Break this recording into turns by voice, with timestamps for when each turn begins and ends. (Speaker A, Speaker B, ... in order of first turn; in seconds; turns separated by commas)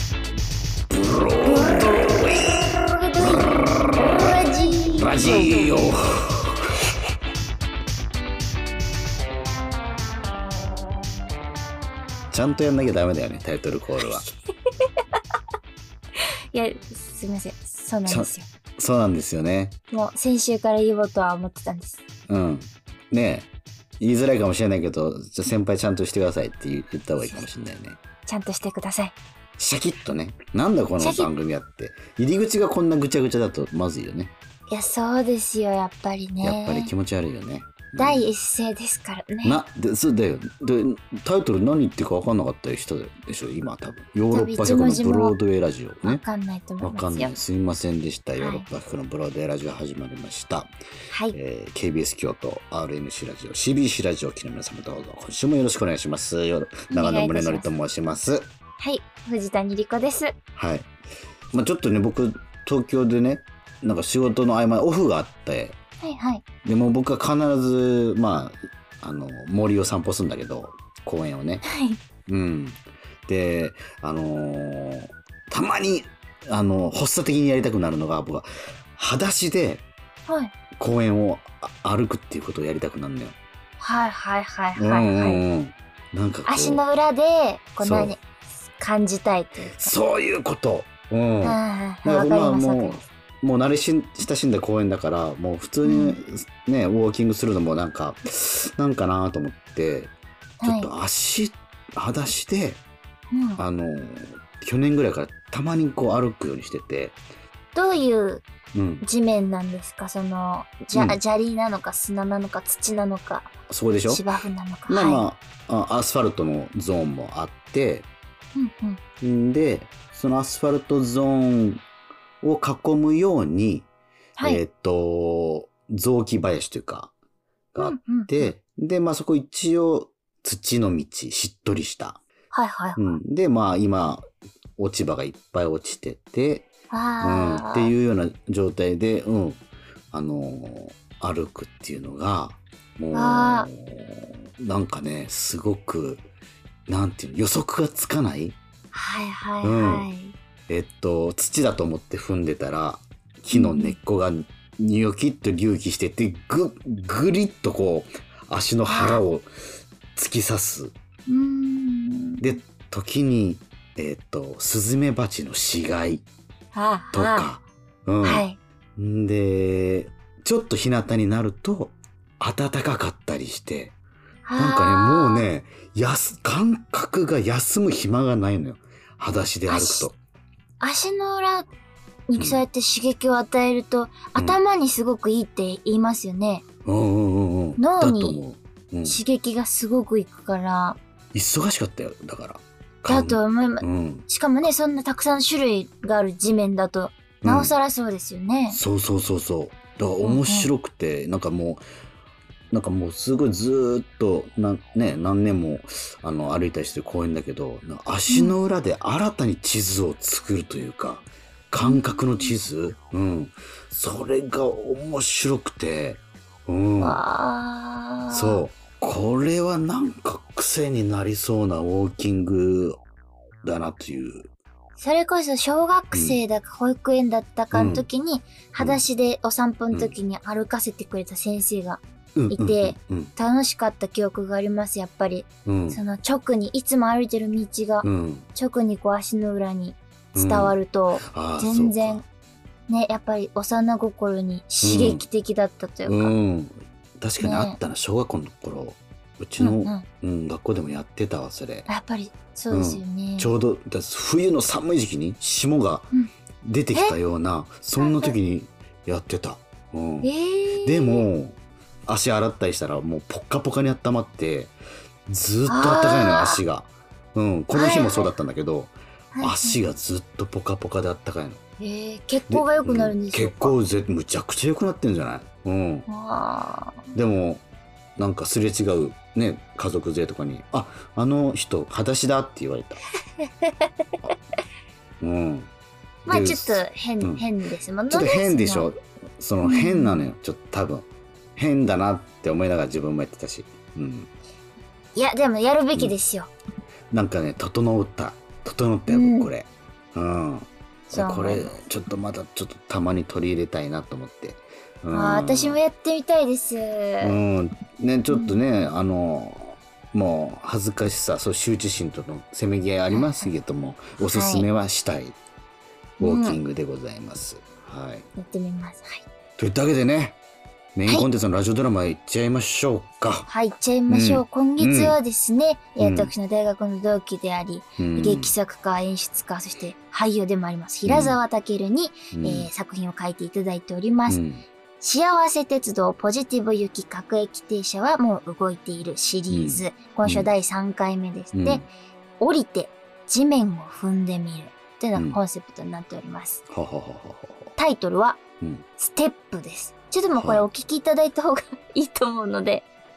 Speaker A: 0.9-4.3, Speaker B: 1.4-5.9, Speaker A: 4.9-6.5, Speaker A: 12.3-14.2, Speaker B: 14.0-14.3, Speaker B: 16.5-18.5, Speaker A: 18.1-19.8, Speaker B: 19.9-22.0, Speaker A: 22.3-23.5, Speaker A: 24.0-28.0, Speaker B: 27.2-27.5, Speaker B: 28.2-29.1, Speaker A: 29.6-34.3, Speaker B: 31.0-31.3, Speaker B: 34.7-36.9, Speaker A: 36.4-38.2, Speaker B: 38.0-39.6, Speaker A: 39.4-46.2, Speaker B: 44.3-45.4, Speaker B: 46.0-47.3, Speaker A: 46.8-50.7, Speaker B: 48.4-48.6, Speaker B: 51.1-51.4, Speaker A: 51.3-58.5, Speaker B: 56.9-57.7, Speaker B: 58.8-60.3, Speaker A: 60.5-60.9, Speaker A: 61.5-65.8, Speaker B: 66.0-66.4, Speaker A: 66.6-71.6, Speaker B: 71.6-72.0, Speaker A: 72.3-79.8, Speaker B: 80.3-80.5, Speaker A: 80.8-83.4, Speaker B: 83.8-85.4, Speaker A: 84.8-86.8, Speaker B: 86.5-88.2, Speaker A: 87.8-88.1, Speaker B: 88.8-89.9, Speaker A: 89.8-102.8, Speaker B: 91.4-93.0, Speaker B: 95.8-96.2, Speaker B: 100.6-100.9, Speaker B: 103.3-103.6, Speaker A: 103.6-107.2, Speaker B: 107.7-108.5, Speaker A: 108.7-109.0, Speaker B: 109.0-113.5, Speaker A: 113.7-114.2, Speaker B: 114.1-115.2, Speaker A: 114.9-118.1, Speaker B: 118.5-119.0, Speaker A: 119.2-121.8, Speaker A: 122.4-123.9, Speaker B: 124.4-124.6, Speaker A: 124.4-127.1, Speaker A: 127.7-132.2, Speaker B: 127.8-128.5, Speaker B: 132.5-133.2, Speaker A: 132.9-134.2, Speaker A: 134.8-136.7, Speaker B: 136.9-137.9, Speaker A: 137.2-146.2, Speaker B: 143.1-143.7, Speaker A: 146.9-148.6, Speaker B: 148.9-150.3, Speaker A: 149.6-150.1, Speaker A: 150.7-159.5, Speaker B: 153.5-153.9, Speaker B: 158.8-159.2, Speaker A: 160.1-160.9, Speaker B: 161.3-162.6, Speaker A: 162.4-166.2, Speaker B: 166.7-167.5, Speaker A: 167.1-174.0, Speaker B: 168.2-168.6, Speaker B: 174.4-175.5, Speaker A: 174.6-180.2, Speaker B: 179.7-180.1, Speaker B: 180.8-181.7, Speaker B: 182.3-186.6, Speaker A: 182.4-182.6, Speaker A: 186.8-189.2, Speaker B: 187.8-188.4, Speaker B: 189.0-191.0, Speaker A: 191.3-194.7, Speaker B: 193.1-198.8, Speaker A: 197.4-197.7, Speaker A: 198.7-201.8, Speaker B: 200.2-200.7, Speaker A: 202.7-217.2, Speaker B: 208.3-208.5, Speaker B: 211.8-212.5, Speaker B: 217.0-218.6, Speaker A: 218.3-223.0, Speaker A: 223.6-224.5, Speaker B: 225.0-242.2, Speaker A: 226.1-226.4, Speaker A: 227.7-228.1, Speaker A: 228.8-229.0, Speaker A: 229.9-230.2, Speaker A: 232.3-233.3, Speaker A: 235.7-236.0, Speaker A: 238.0-238.5, Speaker A: 240.3-242.2, Speaker B: 242.9-246.3, Speaker A: 244.8-245.2, Speaker A: 246.0-251.9, Speaker B: 247.4-247.8, Speaker B: 249.6-250.0, Speaker B: 251.9-253.5, Speaker A: 252.7-256.1, Speaker A: 256.6-261.6, Speaker B: 258.0-258.3, Speaker B: 260.2-261.3, Speaker A: 262.1-264.7, Speaker A: 265.3-271.6, Speaker B: 265.7-266.6, Speaker B: 267.7-268.3, Speaker B: 269.3-269.8, Speaker B: 271.8-273.8, Speaker A: 272.5-276.1, Speaker B: 276.1-277.1, Speaker A: 277.1-277.6, Speaker A: 278.2-283.0, Speaker B: 283.4-283.9, Speaker A: 285.2-285.7, Speaker A: 286.3-287.4, Speaker B: 286.3-288.9, Speaker A: 288.1-294.3, Speaker B: 289.6-290.2, Speaker B: 295.1-296.5, Speaker A: 297.1-305.8, Speaker B: 299.1-299.5, Speaker B: 301.1-301.8, Speaker B: 305.1-307.4, Speaker A: 307.2-315.4, Speaker B: 308.3-308.6, Speaker B: 313.1-313.4, Speaker B: 314.3-314.6, Speaker B: 316.2-316.6, Speaker A: 316.2-318.3, Speaker B: 318.4-319.2, Speaker A: 319.6-320.4, Speaker A: 320.9-323.5, Speaker B: 323.5-334.4, Speaker A: 324.1-325.2, Speaker A: 326.0-326.3, Speaker A: 328.0-328.5, Speaker A: 331.1-331.4, Speaker A: 332.3-332.7, Speaker A: 334.3-334.6, Speaker B: 335.0-341.8, Speaker A: 339.5-340.5, Speaker A: 341.5-341.9, Speaker B: 342.4-346.6, Speaker A: 346.7-347.7, Speaker B: 347.8-348.4, Speaker B: 349.0-352.9, Speaker A: 350.4-350.6